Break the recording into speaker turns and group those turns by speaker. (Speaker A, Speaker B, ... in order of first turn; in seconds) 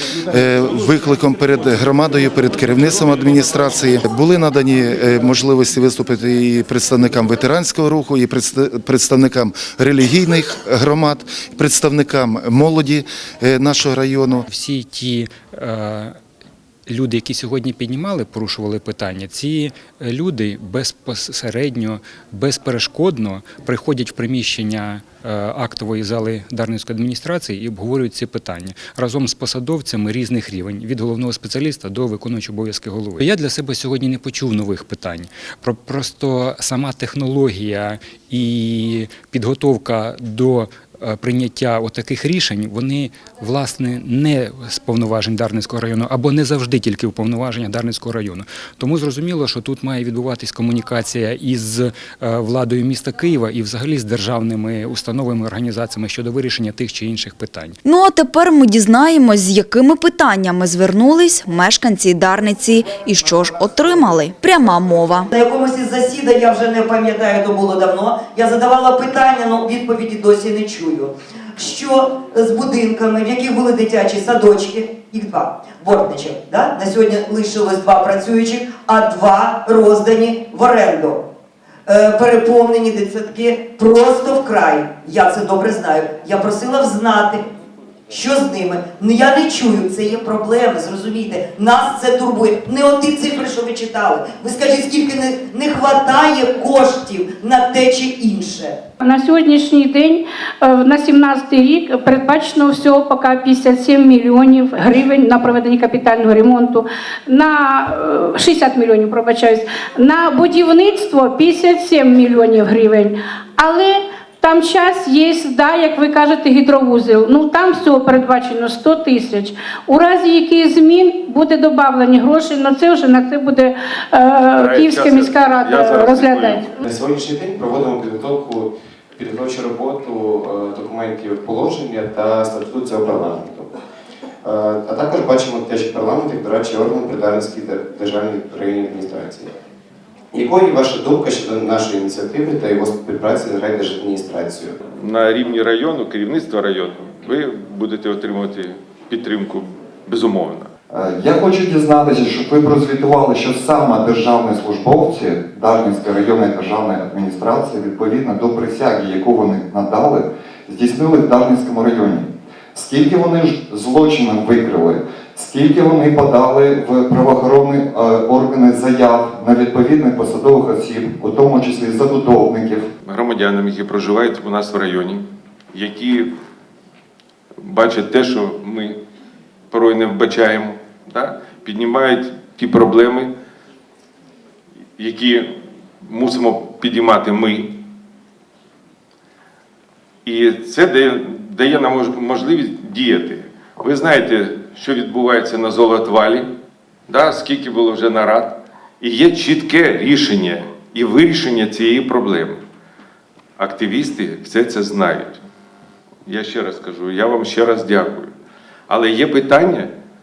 Speaker A: 0.3-14.4
Speaker B: 14.5-16.2, 16.9-57.8
Speaker C: 57.9-65.3
Speaker D: 65.3-81.2, 81.9-87.4, 88.1-98.8
Speaker E: 99.0-126.8
Speaker F: 124.6-126.7, 144.9-150.7, 173.1-176.3, 177.6-179.0, 179.7-183.3, 185.0-185.5, 186.0-187.7, 190.2-196.5, 197.1-202.6, 203.6-205.4, 206.3-208.3, 208.9-209.9
Speaker G: 126.8-133.7, 134.4-139.5, 140.3-144.8
Speaker H: 150.9-172.9